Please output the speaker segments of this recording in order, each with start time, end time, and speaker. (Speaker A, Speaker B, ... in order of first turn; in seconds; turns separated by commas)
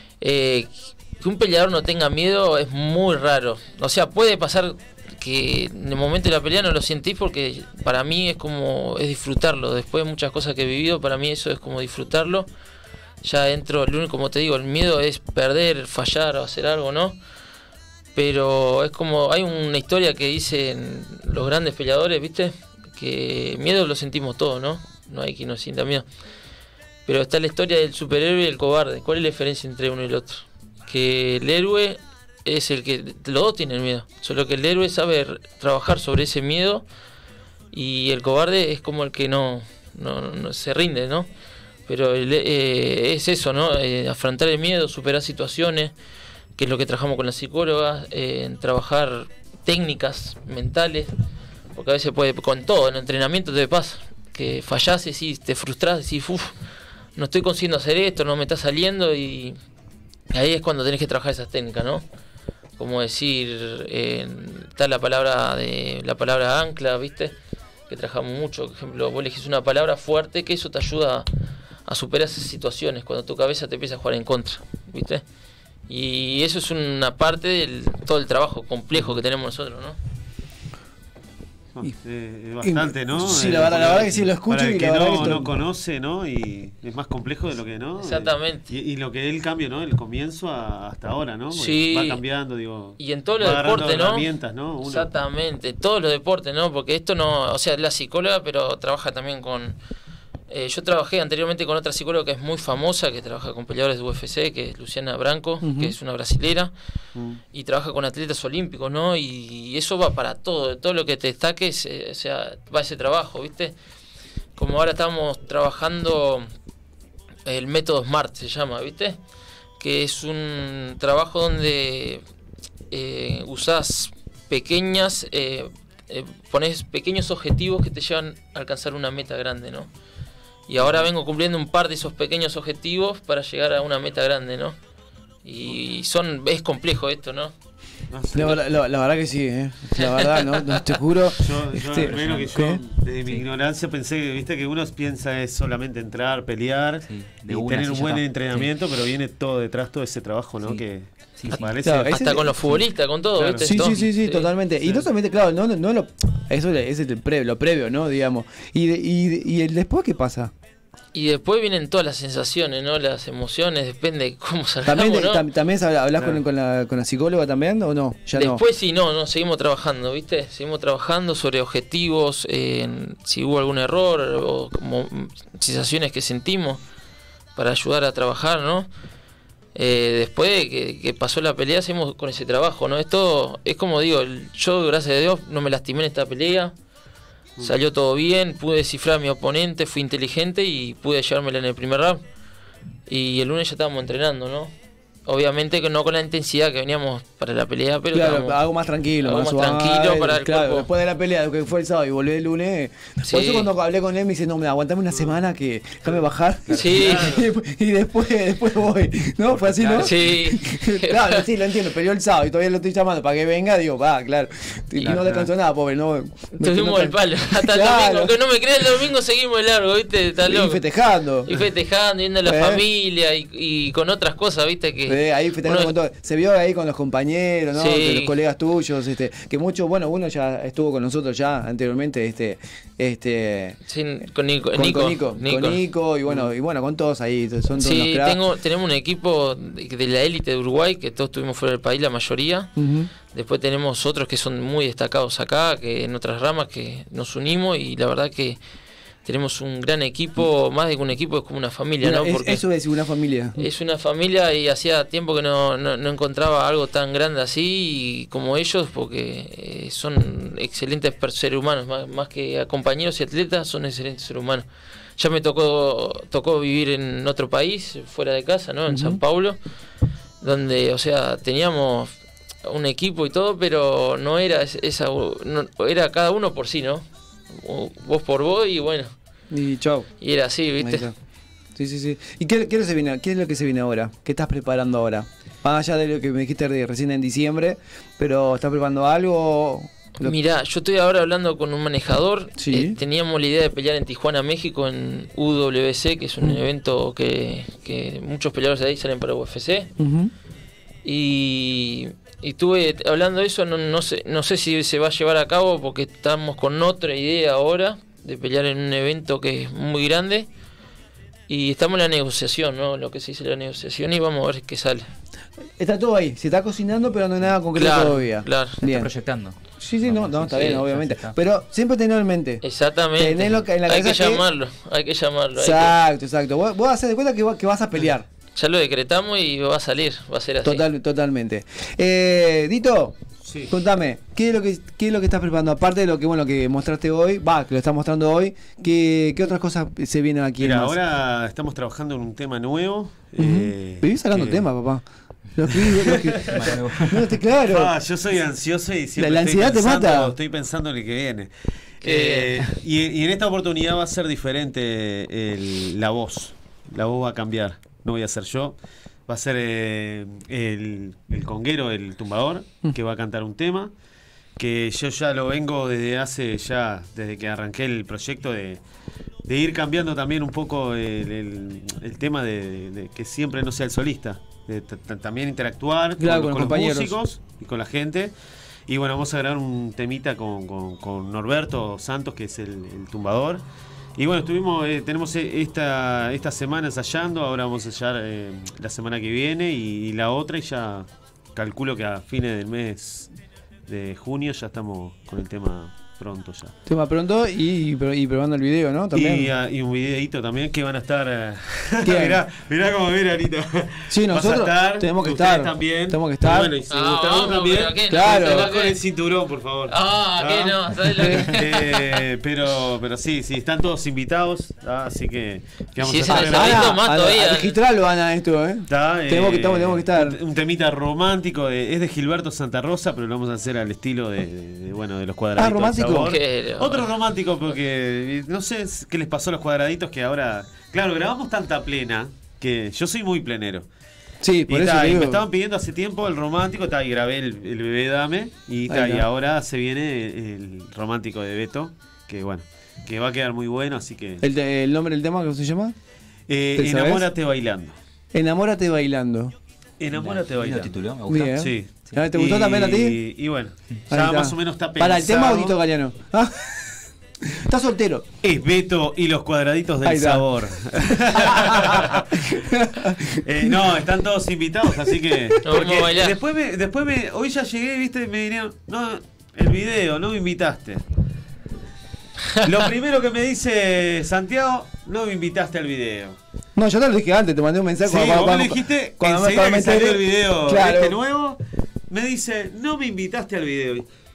Speaker A: 0.2-12.5, Speaker A: 13.2-17.2, Speaker A: 18.1-26.1, Speaker A: 27.1-36.8, Speaker A: 37.7-41.3, Speaker A: 41.9-45.9, Speaker A: 46.5-51.1, Speaker A: 51.7-56.5, Speaker A: 57.1-59.5, Speaker A: 60.3-62.0, Speaker A: 62.8-67.3, Speaker A: 67.9-71.3, Speaker A: 71.9-75.2, Speaker A: 75.9-80.0, Speaker B: 81.8-95.1, Speaker C: 82.6-85.5, Speaker A: 88.0-88.7, Speaker A: 91.5-92.2, Speaker A: 93.0-94.3, Speaker A: 94.8-99.8, Speaker A: 100.5-106.7, Speaker C: 105.6-106.0, Speaker A: 107.5-113.7, Speaker A: 114.5-116.5, Speaker A: 117.5-119.2, Speaker A: 119.8-122.2, Speaker A: 122.9-129.9, Speaker A: 130.7-134.8, Speaker B: 130.8-131.1, Speaker A: 135.4-137.5, Speaker B: 138.1-138.6, Speaker C: 138.3-142.8, Speaker A: 140.0-140.8, Speaker B: 141.4-152.2, Speaker D: 142.0-142.5, Speaker D: 147.0-148.7, Speaker D: 151.3-151.7, Speaker A: 151.5-154.5, Speaker C: 151.8-152.6, Speaker B: 153.3-153.9, Speaker C: 153.6-160.5, Speaker A: 161.1-165.4, Speaker C: 164.8-168.6, Speaker A: 168.3-176.8, Speaker A: 177.6-178.9, Speaker A: 179.7-186.7, Speaker A: 187.6-192.2, Speaker A: 193.1-194.7, Speaker A: 195.2-198.6, Speaker C: 198.1-218.4, Speaker A: 199.2-200.9, Speaker A: 203.2-203.7, Speaker A: 206.7-207.4, Speaker B: 206.8-207.5, Speaker D: 209.7-210.1, Speaker A: 210.0-211.4, Speaker B: 215.1-215.4, Speaker A: 216.6-220.8, Speaker C: 220.4-221.6, Speaker A: 221.4-225.9, Speaker C: 222.4-222.8, Speaker C: 225.1-233.8, Speaker A: 227.7-228.3, Speaker A: 233.9-235.8, Speaker C: 234.7-238.4, Speaker A: 237.7-242.7, Speaker C: 242.8-243.1, Speaker A: 243.3-248.6, Speaker A: 249.2-252.6, Speaker C: 252.0-253.7, Speaker A: 253.6-264.6, Speaker A: 265.2-269.6, Speaker C: 268.9-269.2, Speaker A: 270.4-272.1, Speaker A: 272.6-279.1, Speaker C: 279.5-280.1, Speaker A: 280.2-281.1, Speaker C: 280.8-281.1, Speaker C: 281.8-290.4, Speaker A: 290.2-299.9, Speaker C: 292.6-293.0, Speaker C: 300.0-300.3, Speaker A: 301.0-310.5, Speaker A: 311.5-315.1, Speaker C: 315.8-319.1, Speaker A: 317.7-318.8, Speaker D: 318.8-321.4, Speaker C: 319.8-322.6, Speaker A: 320.6-320.8, Speaker A: 322.6-325.9, Speaker C: 323.1-324.4, Speaker C: 325.6-328.2, Speaker A: 328.6-330.8, Speaker C: 330.6-333.2, Speaker B: 333.4-333.7, Speaker C: 333.7-341.0, Speaker B: 340.6-344.6, Speaker C: 343.4-345.0, Speaker C: 345.5-347.9, Speaker B: 345.7-346.7, Speaker D: 346.4-347.3, Speaker B: 347.6-363.9, Speaker C: 349.2-350.4, Speaker A: 352.0-352.7, Speaker B: 364.6-368.8, Speaker B: 369.4-378.3, Speaker C: 376.2-377.2, Speaker B: 378.9-383.6, Speaker B: 384.2-393.3, Speaker B: 393.9-396.7, Speaker C: 396.9-399.5, Speaker B: 399.1-417.0, Speaker C: 402.0-402.4, Speaker C: 404.1-406.7, Speaker A: 406.9-409.0, Speaker C: 408.1-408.7, Speaker A: 409.9-412.2, Speaker C: 411.2-411.5, Speaker A: 416.0-417.8, Speaker C: 416.3-420.4, Speaker B: 418.9-433.9, Speaker C: 425.5-426.3, Speaker A: 426.2-427.1, Speaker C: 434.4-435.4, Speaker B: 434.7-444.4, Speaker C: 438.9-439.2, Speaker C: 444.4-445.9, Speaker B: 446.5-448.0, Speaker C: 446.7-447.3, Speaker C: 448.3-449.5, Speaker B: 450.0-451.0, Speaker D: 450.1-452.2, Speaker C: 451.3-453.2, Speaker B: 451.6-455.8, Speaker C: 454.1-458.2, Speaker B: 458.4-462.5, Speaker C: 460.0-463.9, Speaker B: 463.4-471.0, Speaker C: 465.1-465.3, Speaker A: 465.6-466.4, Speaker B: 472.6-476.4, Speaker C: 476.8-481.2, Speaker B: 478.0-484.1